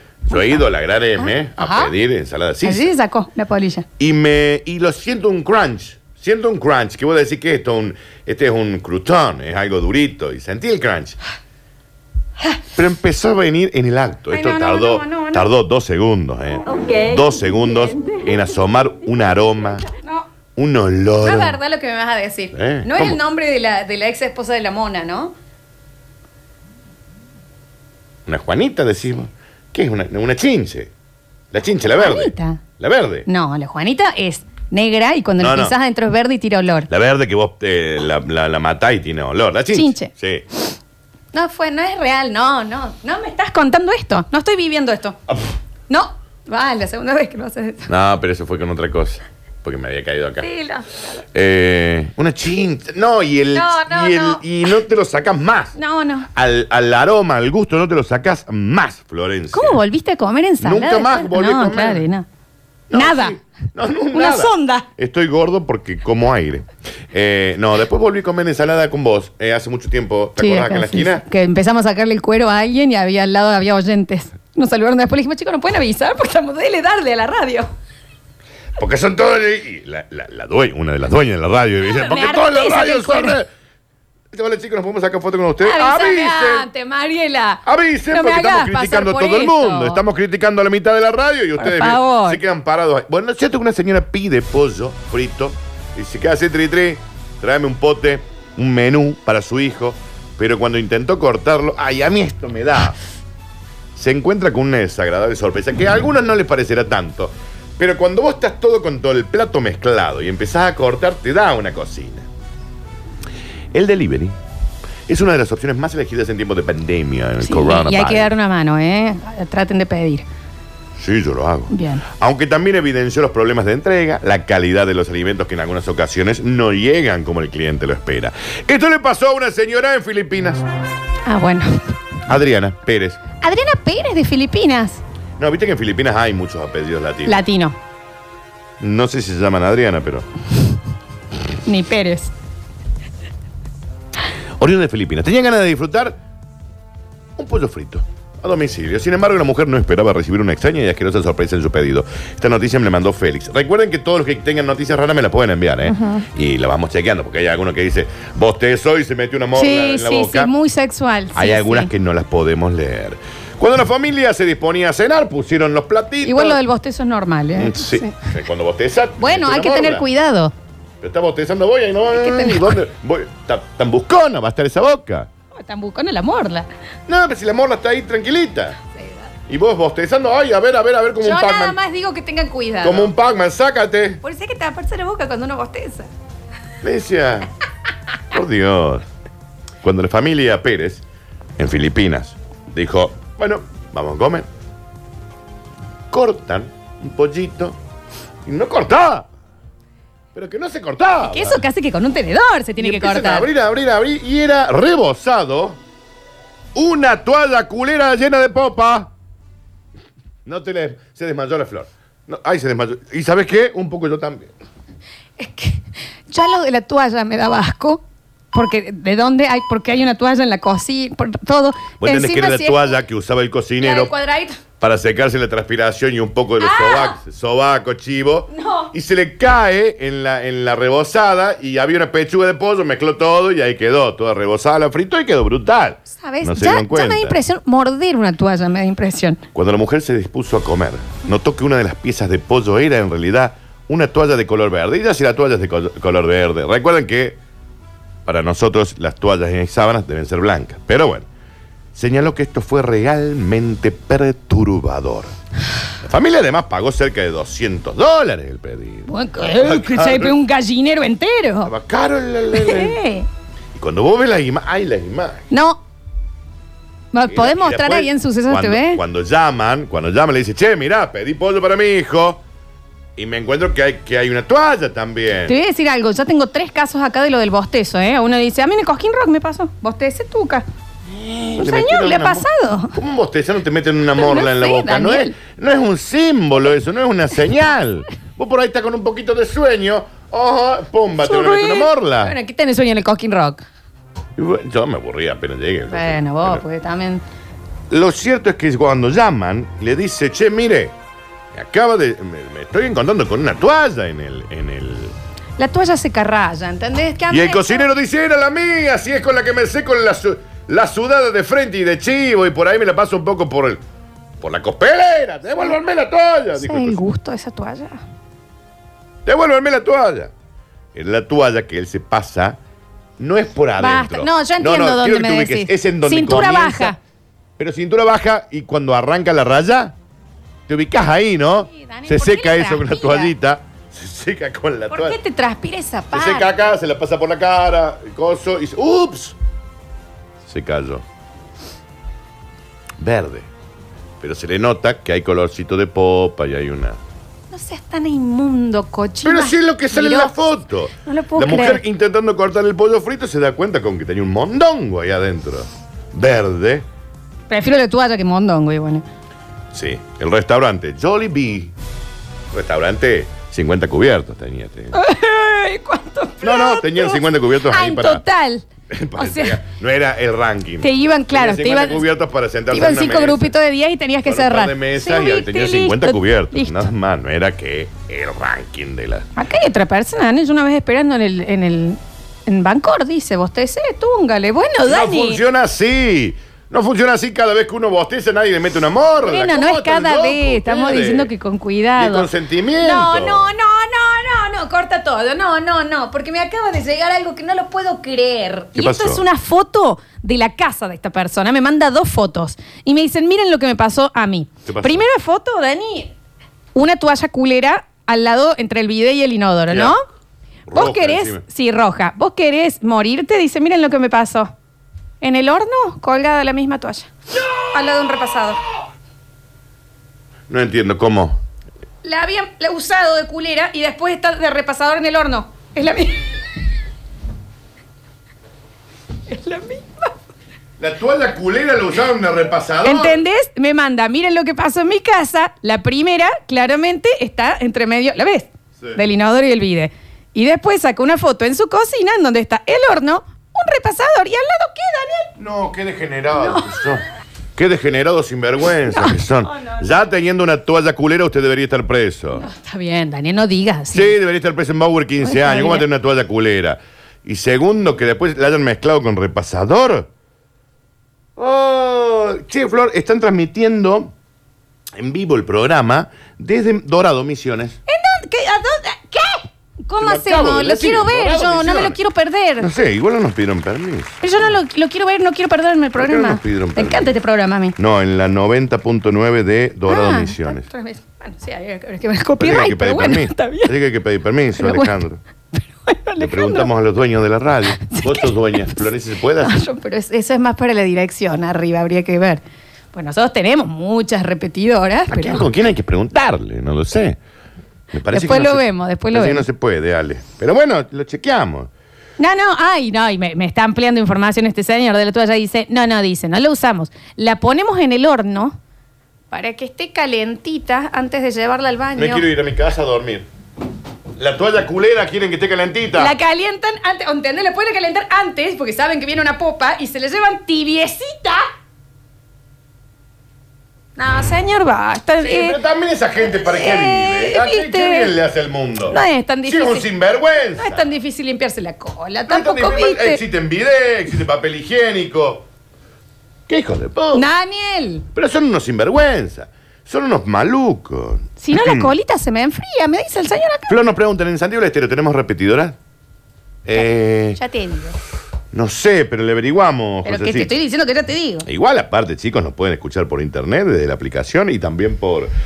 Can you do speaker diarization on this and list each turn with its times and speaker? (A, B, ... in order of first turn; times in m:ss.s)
0:00.3-0:02.9 A
0:00.3-0:00.6 B
0:01.2-0:01.9 B
0:02.6-0:03.8 B
0:04.0-0:11.2 A
0:12.7-0:19.9 A
0:14.3-0:15.5 B
0:19.9-0:20.3 B
0:20.6-0:21.6 A
0:21.2-0:25.3 B
0:22.5-0:23.2 A
0:28.2-0:30.9 A
0:31.5-0:33.3 A
0:31.9-0:32.6 B
0:33.3-0:36.9 B
0:35.4-0:35.7 A
0:36.9-0:40.4 A
0:39.7-0:40.1 B
0:41.3-0:45.2 B
0:45.9-0:47.9 B
0:47.9-0:50.5 A
0:50.4-0:51.2 B
0:51.3-0:55.8 A
0:53.5-0:54.4 B
0:55.8-0:56.3 B
0:56.3-0:59.8 A
0:59.5-1:02.2 B
1:00.6-1:02.0 A
1:02.9-1:11.2 A
1:02.9-1:03.4 B
1:04.1-1:04.9 B
1:10.4-1:17.7 B
1:18.8-1:23.5 A
1:21.8-1:23.4 B
1:24.3-1:26.7 A
1:25.6-1:30.0 B
1:27.6-1:43.0 A
1:31.6-1:32.4 B
1:44.0-1:52.3 A
1:53.7-1:54.4 A
1:55.1-1:58.3 A
1:57.4-2:00.2 B
2:01.0-2:10.6 A
2:01.7-2:02.0 B
2:11.2-2:11.9 B
2:12.3-2:13.2 A
2:13.4-2:15.0 B
2:15.4-2:17.4 A
2:17.2-2:17.8 B
2:18.8-2:20.2 A
2:21.6-2:22.3 B
2:24.6-2:26.2 A
2:27.4-2:40.5 A
2:35.8-2:36.2 B
2:39.6-2:41.9 B
2:41.3-2:46.6 A
2:46.2-2:48.3 B
2:47.5-2:50.0 A
2:49.2-2:50.5 B
2:51.0-2:55.3 A
2:52.1-2:52.8 B
2:55.5-2:56.7 B
2:57.1-2:58.8 A
2:58.9-2:59.3 B
2:59.5-3:01.8 A
3:01.2-3:03.1 B
3:02.8-3:04.2 A
3:04.2-3:06.1 B
3:06.8-3:07.5 A
3:08.3-3:09.0 A
3:09.8-3:11.0 A
3:11.6-3:14.5 A
3:16.1-3:17.8 A
3:18.4-3:19.3 A
3:20.3-3:21.6 A
3:21.2-3:23.5 B
3:22.8-3:25.8 A
3:26.7-3:29.1 A
3:30.4-3:34.5 A
3:35.4-3:38.0 B
3:38.5-3:42.9 B
3:42.0-3:44.1 A
3:43.8-3:44.6 B
3:44.8-3:57.4 A
3:46.6-3:47.2 B
3:48.5-3:48.9 B
3:56.1-3:59.4 B
3:59.5-4:07.4 A
4:08.2-4:11.3 A
4:11.9-4:15.3 A
4:16.0-4:20.4 A
4:19.1-4:21.7 B
4:21.6-4:23.0 A
4:22.5-4:23.3 B
4:23.7-4:25.4 A
4:25.5-4:25.8 B
4:27.1-4:29.0 B
4:27.3-4:32.4 A
4:33.2-4:35.6 A
4:35.4-4:40.6 B
4:41.1-4:52.3 A
4:41.6-4:43.0 B
4:44.2-4:45.4 B
4:51.2-4:53.6 B
4:54.4-4:56.6 A
4:55.9-4:57.2 B
4:57.9-5:00.9 A
5:01.5-5:05.1 A
5:05.6-5:07.9 B
5:07.3-5:13.8 A
5:14.4-5:17.0 A
5:16.6-5:18.0 B
5:19.2-5:20.3 A
5:20.9-5:22.6 A
5:23.2-5:26.9 A
5:23.8-5:27.0 B
5:27.6-5:29.9 A
5:30.7-5:35.2 A
5:31.7-5:33.3 B
5:34.9-5:36.5 B
5:36.1-5:39.4 A
5:40.4-5:41.0 A
5:43.0-5:43.5 A
5:44.2-5:47.0 A
5:47.5-5:50.4 B
5:49.2-5:56.8 A
5:51.0-5:51.8 B
5:57.5-5:59.0 B
5:59.7-6:01.7 A
6:02.5-6:05.0 A
6:04.9-6:09.6 B
6:06.4-6:08.2 A
6:08.9-6:13.5 A
6:10.8-6:12.0 B
6:12.7-6:16.9 B
6:14.2-6:19.3 A
6:19.4-6:25.4 B
6:24.8-6:31.3 A
6:29.2-6:46.1 B
6:32.0-6:33.5 A
6:38.7-6:39.2 A
6:44.6-6:45.0 A
6:46.7-6:50.0 B
6:49.7-6:49.9 A
6:50.7-6:51.4 A
6:50.7-6:54.5 B
6:55.2-6:58.6 B
7:00.5-7:01.4 A
7:02.0-7:06.4 B
7:09.3-7:10.1 B
7:10.8-7:13.2 A
7:12.8-7:25.3 B
7:25.4-7:27.0 A
7:26.3-7:26.8 B
7:27.6-7:32.4 A
7:28.9-7:29.8 B
7:32.3-7:34.1 B
7:33.9-7:40.1 A
7:35.2-7:35.9 B
7:41.4-7:44.1 A
7:45.0-7:47.8 A
7:47.9-7:52.7 B
7:50.0-7:52.0 A
7:52.6-7:54.2 A
7:54.2-7:57.8 B
7:56.0-7:57.1 A
7:57.8-8:00.7 A
7:59.9-8:03.7 B
8:02.4-8:05.2 A
8:04.6-8:04.9 B
8:05.5-8:06.7 B
8:06.2-8:09.6 A
8:07.8-8:08.8 B
8:09.4-8:12.4 B
8:12.9-8:15.5 B
8:15.1-8:17.2 A
8:17.9-8:21.7 A
8:18.1-8:19.4 B
8:22.2-8:28.6 B
8:29.3-8:32.2 B
8:32.0-8:33.3 A
8:34.2-8:36.1 A
8:36.0-8:41.4 B
8:44.0-8:45.6 B
8:45.2-8:50.9 A
8:46.3-8:48.1 B
8:48.9-8:49.9 B
8:50.5-8:53.2 B
8:52.3-8:55.4 A
8:56.5-8:57.2 A
8:57.1-8:58.0 B
8:58.1-9:01.9 A
9:01.4-9:03.7 B
9:03.7-9:05.8 A
9:06.6-9:07.4 A
9:06.8-9:08.0 B
9:08.5-9:10.5 A
9:10.0-9:11.4 B
9:11.4-9:15.3 A